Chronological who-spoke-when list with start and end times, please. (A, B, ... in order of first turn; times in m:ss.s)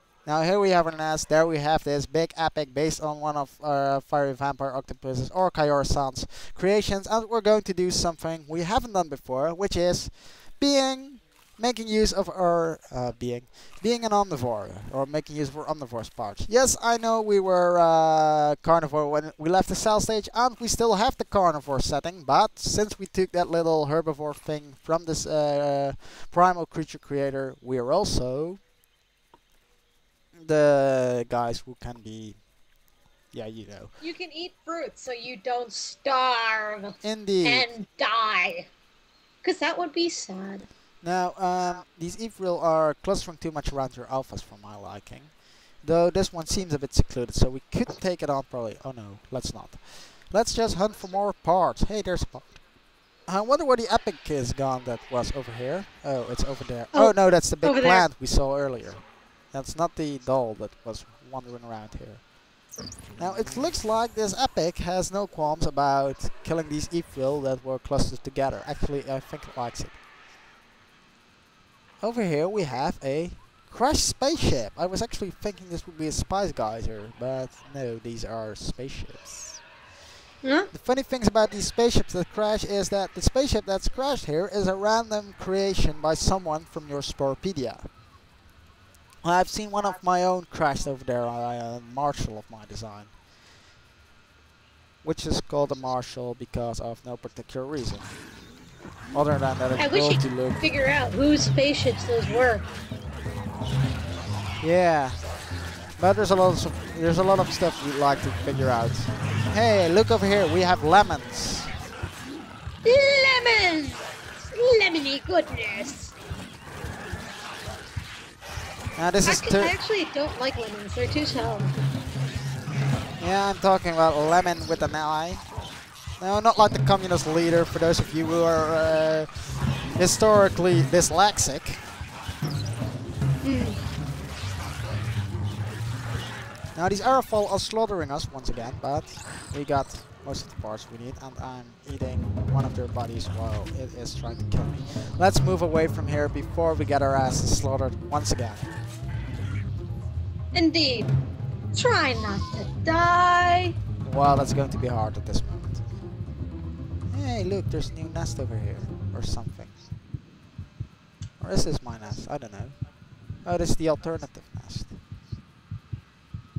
0:00.2-0:28.6 A
0:30.4-0:32.4 A
0:33.3-0:33.9 A
0:34.0-0:38.7 B
0:37.0-0:37.7 A
0:39.4-0:40.6 B
0:41.0-0:45.3 A
0:45.8-0:52.6 A
0:53.3-1:02.3 A
0:56.9-0:58.1 B
1:03.2-1:10.0 A
1:12.0-1:19.6 A
1:20.4-1:20.7 B
1:20.7-1:27.9 A
1:29.2-1:33.1 A
1:35.0-1:38.1 A
1:39.1-1:40.6 A
1:39.8-1:42.7 B
1:44.6-1:45.2 A
1:46.0-1:51.7 A
1:52.8-1:56.1 B
1:59.0-1:59.7 A
1:59.2-2:01.7 B
2:03.2-2:05.4 A
2:06.2-2:11.8 A
2:13.4-2:13.8 B
2:16.7-2:28.7 A
2:30.5-2:31.1 B
2:31.7-2:33.8 B
2:34.0-2:35.8 A
2:37.1-2:39.7 A
2:41.4-2:42.8 A
2:43.4-2:45.0 A